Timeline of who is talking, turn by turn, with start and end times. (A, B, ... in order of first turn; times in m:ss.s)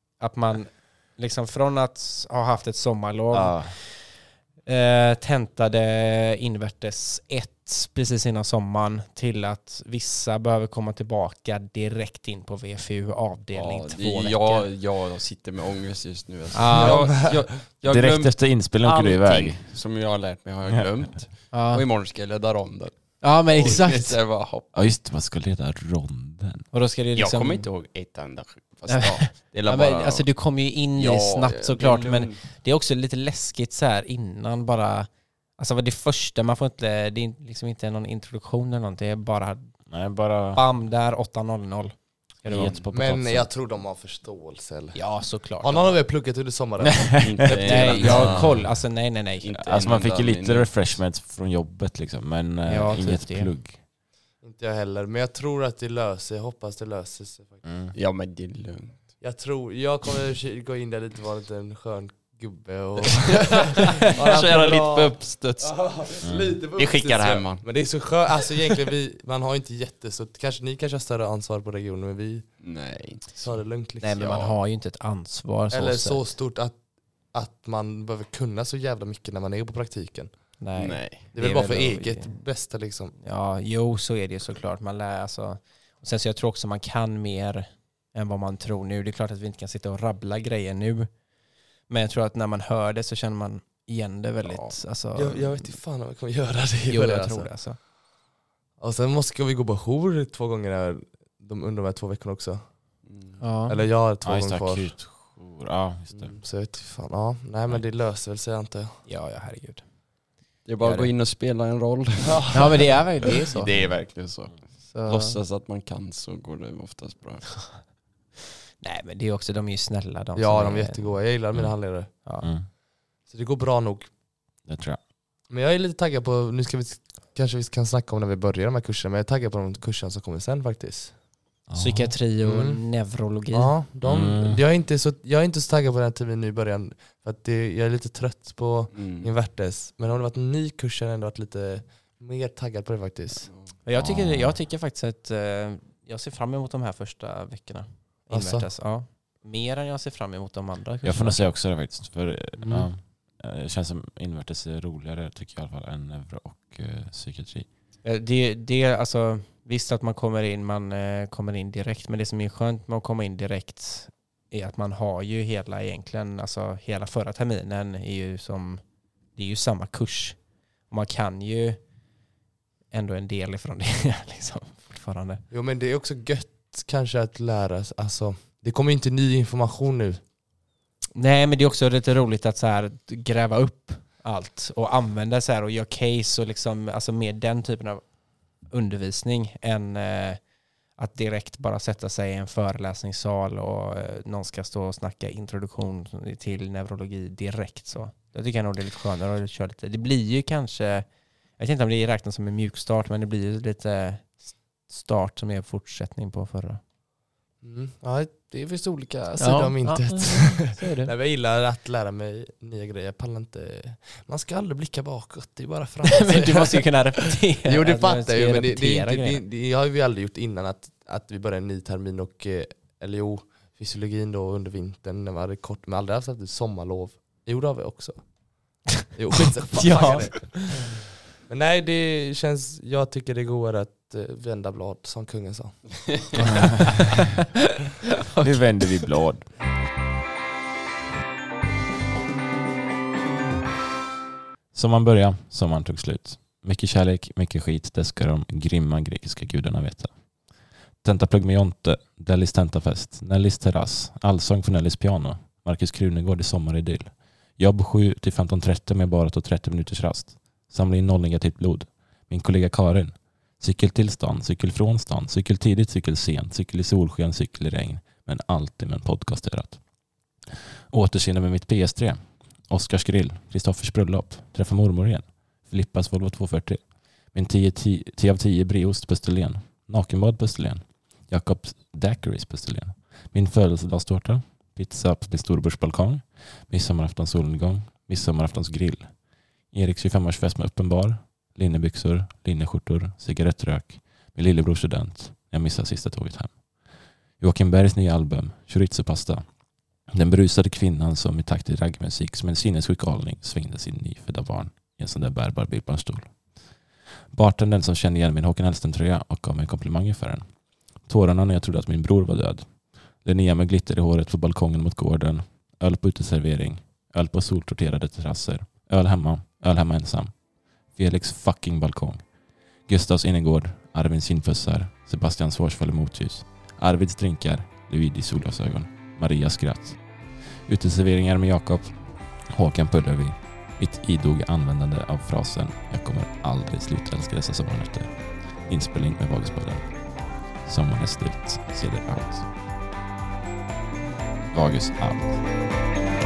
0:00.2-0:14.6 A
0:03.3-0:03.8 B
0:13.5-0:24.8 C
0:16.5-0:17.0 A
0:16.7-0:17.4 D
0:17.9-0:19.6 B
0:21.5-0:21.8 A
0:23.2-0:24.2 A
0:24.7-0:26.7 B
0:26.7-0:27.7 A
0:27.1-0:30.3 C
0:28.9-0:39.7 A
0:31.0-0:32.4 C
0:39.9-0:40.6 B
0:40.5-0:42.8 A
0:42.4-0:43.5 B
0:42.9-0:45.0 D
0:44.9-0:46.0 A
0:45.6-0:48.5 D
0:46.8-0:47.3 B
0:47.2-0:48.6 C
0:47.6-0:49.5 A
0:48.1-0:48.6 B
0:49.4-0:51.0 C
0:49.6-0:53.8 B
0:52.6-0:53.5 A
0:54.4-0:57.6 D
0:57.6-0:57.9 B
0:57.9-0:59.0 C
0:59.2-1:12.5 D
1:03.3-1:06.1 C
1:06.2-1:06.5 B
1:06.7-1:07.7 C
1:12.6-1:13.6 C
1:13.4-1:14.2 D
1:14.0-1:16.3 A
1:14.2-1:14.6 C
1:15.7-1:16.8 D
1:17.3-1:20.3 D
1:20.6-1:22.3 A
1:20.8-1:21.2 C
1:21.3-1:23.1 D
1:23.2-1:31.1 A
1:31.9-1:35.7 A
1:34.4-1:34.7 C
1:35.1-1:37.5 D
1:36.9-1:37.8 A
1:38.8-1:42.6 D
1:43.0-1:43.4 C
1:43.4-1:43.8 A
1:43.7-1:44.9 D
1:44.2-1:46.4 B
1:46.2-1:49.0 D
1:49.0-1:49.8 A
1:50.6-1:57.8 C
1:50.8-1:51.1 D
1:52.2-1:52.8 D
1:52.5-1:53.7 A
1:54.9-1:55.4 A
1:58.8-2:01.2 A
2:00.4-2:02.1 D
2:02.4-2:02.7 B
2:03.2-2:04.1 D
2:04.6-2:05.0 B
2:05.5-2:11.1 D
2:11.7-2:12.1 B
2:11.8-2:13.7 A
2:12.4-2:12.8 D
2:13.5-2:23.5 D
2:14.0-2:14.6 B
2:18.9-2:19.3 C
2:23.8-2:31.4 A
2:24.0-2:24.6 B
2:28.3-2:28.7 D
2:31.0-2:37.7 B
2:38.0-2:48.8 A
2:49.3-2:51.8 A
2:52.9-2:55.4 A
2:55.5-3:00.2 D
3:01.1-3:08.1 A
3:08.6-3:10.4 A
3:10.9-3:26.8 A
3:27.6-3:37.0 D
3:29.4-3:31.1 A
3:36.0-3:39.4 A
3:37.6-3:48.2 D
3:49.1-3:50.7 D
3:49.7-3:50.8 A
3:51.4-3:55.8 D
3:56.4-3:57.3 A
3:56.4-3:57.0 B
3:58.3-3:59.0 A
3:58.4-3:59.5 B
4:04.7-4:10.1 B
4:11.0-4:29.8 B
4:30.9-4:49.1 B
4:49.7-4:56.6 B
4:57.4-4:59.4 B
5:00.1-5:06.4 B
5:07.3-5:22.3 B
5:22.8-5:40.0 B
5:40.5-5:42.5 B
5:44.5-5:45.4 B